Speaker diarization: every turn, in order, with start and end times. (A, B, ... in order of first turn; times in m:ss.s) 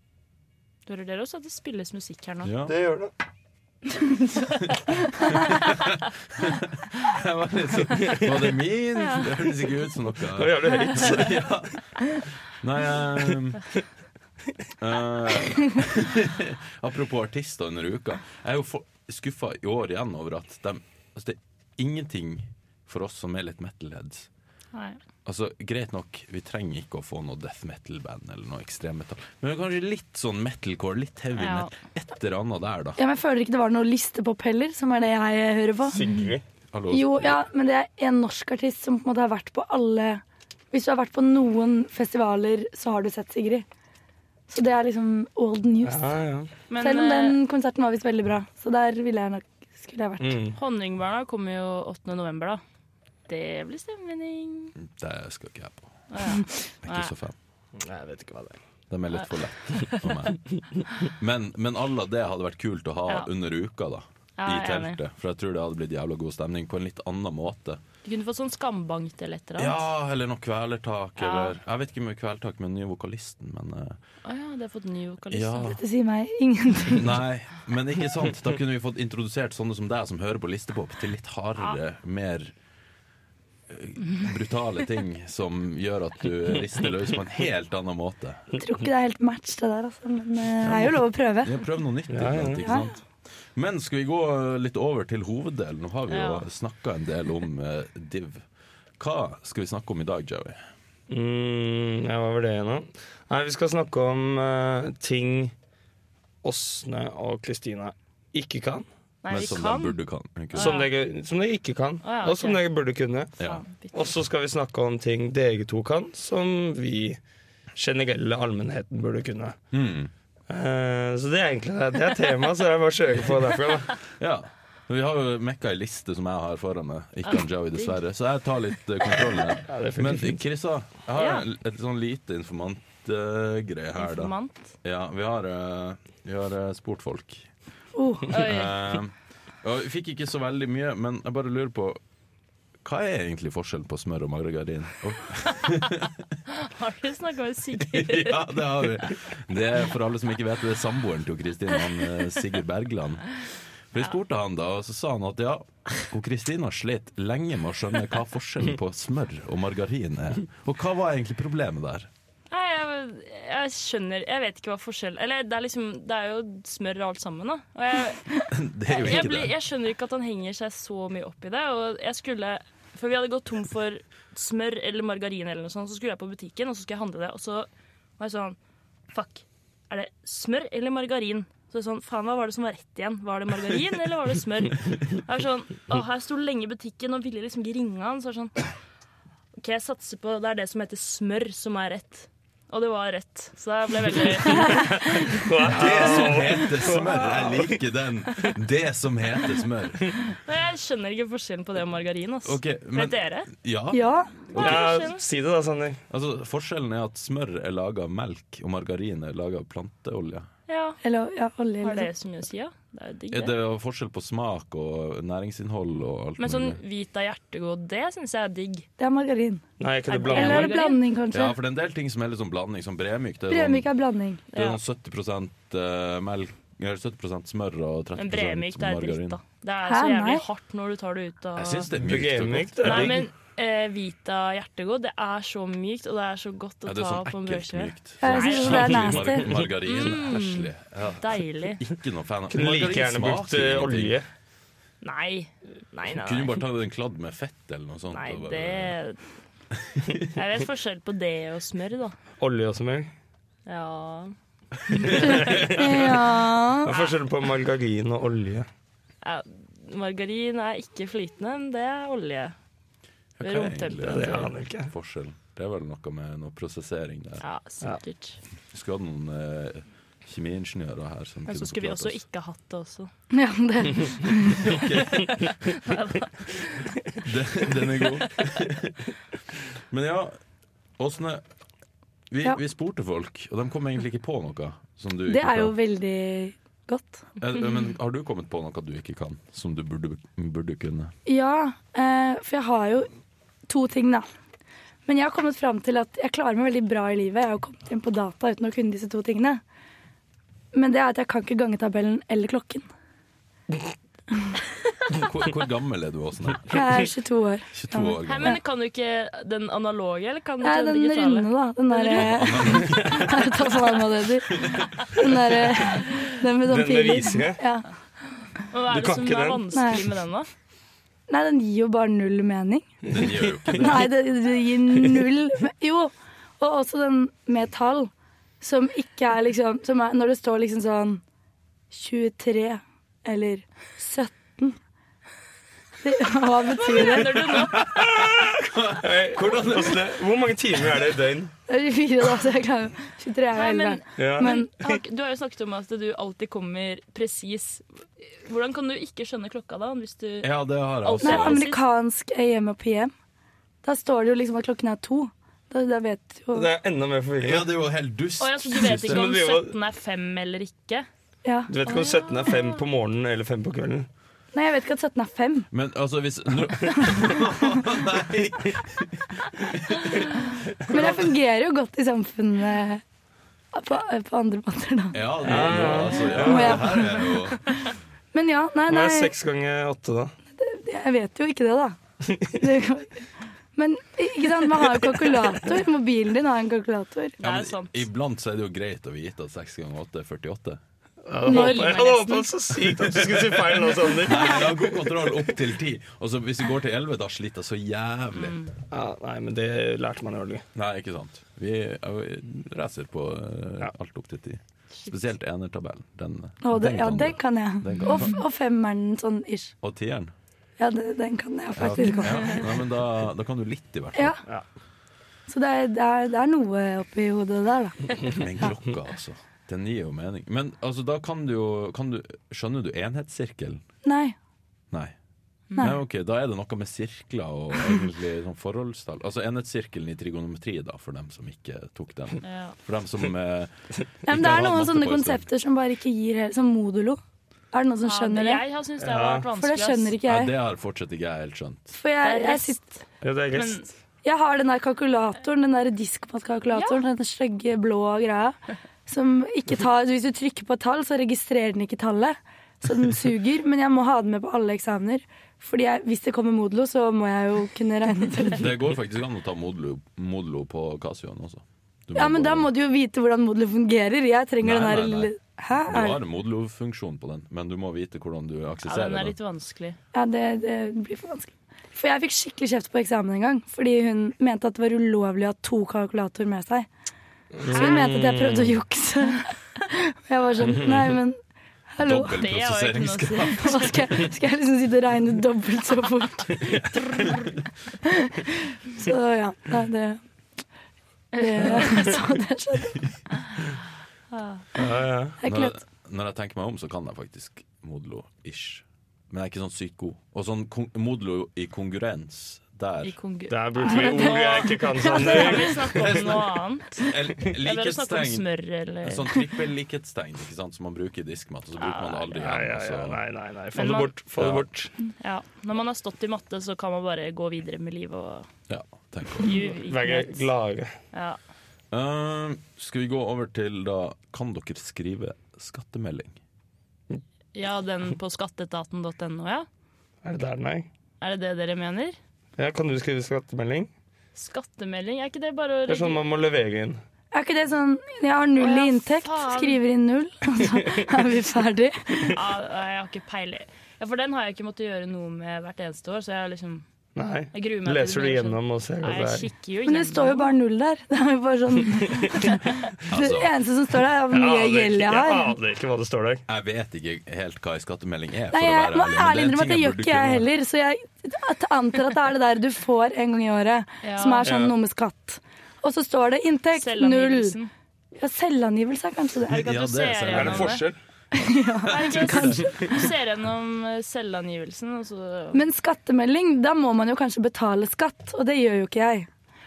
0:00.9-0:02.5 A
0:02.4-0:02.8 B
0:02.7-0:03.1 C
0:05.5-0:05.8 B
0:06.5-0:11.7 B
0:10.4-0:11.5 C
0:12.6-0:13.7 B
0:14.8-0:24.3 B
0:24.7-0:25.0 A
0:25.2-0:33.0 B
0:31.4-0:31.7 A
0:33.0-0:36.0 D
0:35.9-0:36.4 C
0:36.7-0:37.4 B
0:36.9-0:43.7 D
0:44.5-0:46.1 D
0:45.8-0:46.5 C
0:46.7-0:47.4 A
0:46.8-0:50.4 D
0:50.2-0:50.6 C
0:50.6-0:52.6 A
0:53.3-0:54.7 A
0:55.0-0:55.9 B
0:56.1-0:57.1 A
0:56.8-0:57.3 B
0:57.8-0:58.6 C
0:58.9-1:00.4 B
0:59.9-1:00.1 A
1:01.2-1:07.8 B
1:04.4-1:05.0 A
1:08.0-1:09.8 A
1:09.6-1:14.0 B
1:11.2-1:11.6 A
1:14.2-1:15.8 A
1:15.3-1:15.8 B
1:15.6-1:17.1 D
1:16.9-1:22.5 B
1:23.7-1:28.4 B
1:28.6-1:31.6 D
1:30.6-1:33.0 B
1:32.1-1:32.6 C
1:32.6-1:32.9 D
1:33.6-1:38.4 B
1:36.1-1:36.5 A
1:39.0-1:40.6 B
1:41.1-1:45.5 C
1:46.4-1:48.9 C
1:49.2-1:50.0 A
1:49.3-1:50.8 B
1:50.5-1:50.9 A
1:50.6-1:53.3 C
1:52.0-1:52.6 A
1:53.4-1:54.0 A
1:53.9-1:57.2 C
1:57.8-1:59.6 C
1:59.7-2:00.1 B
2:00.5-2:03.9 C
2:04.2-2:17.5 B
2:07.3-2:08.0 A
2:09.7-2:10.4 C
2:11.2-2:11.4 A
2:14.0-2:14.7 A
2:18.0-2:18.3 D
2:18.3-2:18.7 A
2:18.3-2:22.0 B
2:22.8-2:26.1 B
2:26.5-2:28.4 A
2:27.8-2:33.4 B
2:33.9-2:42.1 B
2:42.5-2:48.3 A
2:48.5-2:49.5 B
2:48.9-2:57.7 A
2:58.2-2:58.6 A
2:59.1-3:08.6 A
3:09.6-3:15.1 A
3:14.7-3:17.8 C
3:15.7-3:20.0 B
3:20.4-3:23.5 A
3:22.4-3:25.0 B
3:23.9-3:24.4 D
3:24.5-3:26.0 C
3:24.5-3:25.2 A
3:26.1-3:30.5 B
3:30.7-3:31.0 A
3:31.0-3:32.1 D
3:31.8-3:33.5 A
3:33.3-3:36.8 B
3:36.4-3:38.9 A
3:39.0-3:39.6 D
3:39.8-3:40.8 C
3:40.1-3:41.0 A
3:40.3-3:41.6 D
3:41.3-3:43.9 B
3:43.5-3:44.4 D
3:44.5-3:44.8 A
3:44.5-3:49.4 B
3:48.2-3:51.9 A
3:49.9-3:50.4 D
3:51.6-3:53.2 B
3:52.0-3:53.2 C
3:52.8-3:59.3 A
3:56.9-4:04.2 B
3:58.2-3:59.5 D
3:59.8-4:00.7 A
4:01.2-4:01.8 A
4:02.5-4:04.3 C
4:05.0-4:06.6 A
4:06.2-4:09.0 B
4:08.1-4:09.2 A
4:10.3-4:12.2 A
4:12.4-4:13.1 C
4:13.7-4:14.3 A
4:15.0-4:16.1 C
4:15.2-4:16.9 D
4:16.8-4:18.7 C
4:19.2-4:22.6 A
4:23.4-4:27.4 B
4:23.4-4:24.4 A
4:24.0-4:24.9 C
4:27.4-4:28.4 A
4:28.7-4:32.2 B
4:31.5-4:33.1 A
4:33.3-4:34.7 D
4:34.6-4:35.4 B
4:35.2-4:36.4 A
4:37.2-4:39.0 B
4:39.9-4:40.4 B
4:41.0-4:41.4 B
4:42.3-4:45.7 B
4:45.3-4:47.2 D
4:47.4-4:51.1 B
4:51.3-4:53.1 D
4:53.7-4:54.3 D
4:55.1-4:59.6 D
5:00.7-5:02.9 D
5:05.1-5:06.8 B
5:06.7-5:08.6 D
5:07.7-5:08.6 B
5:08.2-5:12.6 A
5:10.6-5:17.9 D
5:12.1-5:13.5 B
5:14.6-5:14.9 B
5:16.6-5:17.6 C
5:18.7-5:20.5 A
5:18.9-5:19.6 C
5:19.7-5:20.0 D
5:21.3-5:23.0 D
5:23.1-5:24.1 B
5:23.7-5:31.2 D
5:31.9-5:34.8 D
5:36.0-5:37.7 D
5:36.8-5:38.0 A
5:37.8-5:40.1 B
5:39.0-5:41.5 C
5:41.7-5:44.7 D
5:43.6-5:50.5 A
5:44.2-5:45.0 C
5:50.4-5:51.6 B
5:51.0-5:51.8 A
5:51.2-5:53.1 D
5:53.8-5:56.7 D
5:56.5-5:57.7 C
5:57.4-5:59.3 B
5:58.4-6:01.1 A
5:58.8-5:59.7 C
6:01.4-6:01.7 D
6:01.7-6:04.1 C
6:01.9-6:02.7 A
6:04.5-6:05.7 D
6:05.7-6:10.2 B
6:07.0-6:07.4 D
6:10.9-6:13.0 D
6:10.9-6:11.2 B
6:13.7-6:17.4 D
6:15.1-6:17.6 B
6:15.4-6:16.9 C
6:18.3-6:19.3 D
6:18.9-6:20.4 C
6:20.6-6:22.0 D
6:22.5-6:27.4 D
6:27.4-6:28.0 A
6:27.4-6:30.8 B
6:31.3-6:35.0 C
6:31.4-6:32.1 D
6:31.5-6:32.5 A
6:33.1-6:38.6 B
6:38.3-6:38.7 A
6:38.9-6:40.6 C
6:40.8-6:48.4 B
6:46.6-6:49.7 D
6:49.8-6:50.3 B
6:50.8-6:52.7 D
6:51.8-6:54.4 B
6:54.1-6:54.4 D
6:55.5-6:58.0 D
6:58.4-7:03.8 B
7:04.0-7:04.4 D
7:05.8-7:13.7 B
7:12.4-7:12.8 A
7:14.3-7:15.4 B
7:14.3-7:17.2 D
7:17.7-7:18.6 D
7:18.0-7:20.1 A
7:19.0-7:19.5 C
7:19.5-7:20.5 D
7:20.3-7:22.0 B
7:21.9-7:22.9 D
7:22.2-7:22.8 A
7:23.2-7:23.8 C
7:23.5-7:23.9 A
7:24.2-7:38.7 D
7:26.7-7:27.0 A
7:38.6-7:42.7 B
7:42.2-7:46.2 D
7:44.6-7:45.3 B
7:45.8-7:49.4 B
7:48.9-7:50.0 A
7:50.1-7:56.9 D
7:57.6-7:58.8 C
7:57.7-8:01.4 D
8:00.6-8:01.0 C
8:01.9-8:02.4 D
8:02.0-8:04.0 B
8:02.4-8:03.9 A
8:03.6-8:06.8 D
8:08.0-8:10.2 D
8:11.3-8:13.0 D
8:11.4-8:11.9 A
8:14.3-8:14.6 A
8:14.8-8:15.4 C
8:15.4-8:15.7 D
8:15.4-8:23.2 B
8:23.0-8:27.1 A
8:23.5-8:26.2 C
8:25.9-8:26.4 B
8:27.0-8:28.4 B
8:27.6-8:29.3 A
8:29.0-8:33.2 B
8:31.8-8:32.4 A
8:32.4-8:34.9 C
8:33.8-8:34.1 A
8:34.4-8:34.7 B
8:35.2-8:38.5 A
8:38.7-8:39.6 B
8:39.4-8:40.5 A
8:39.6-8:40.9 C
8:41.1-8:41.4 A
8:41.9-8:46.4 B
8:47.6-8:49.7 A
8:50.2-8:50.9 C
8:51.2-8:52.2 A
8:52.6-8:53.9 C
8:54.4-8:56.2 A
8:55.9-8:57.0 C
8:57.3-9:02.4 D
8:58.6-8:59.8 A
9:02.3-9:06.8 A
9:07.2-9:09.5 C
9:07.5-9:10.5 A
9:09.9-9:12.6 D
9:13.1-9:13.5 B
9:13.1-9:15.6 D
9:14.3-9:16.4 C
9:16.5-9:20.5 B
9:18.5-9:27.6 D
9:24.0-9:24.5 A
9:24.4-9:24.7 C
9:26.7-9:27.7 A
9:28.2-9:29.6 D
9:29.5-9:30.8 A
9:29.5-9:30.9 B
9:30.3-9:31.0 C
9:31.3-9:33.0 D
9:31.9-9:35.6 A
9:35.5-9:39.3 D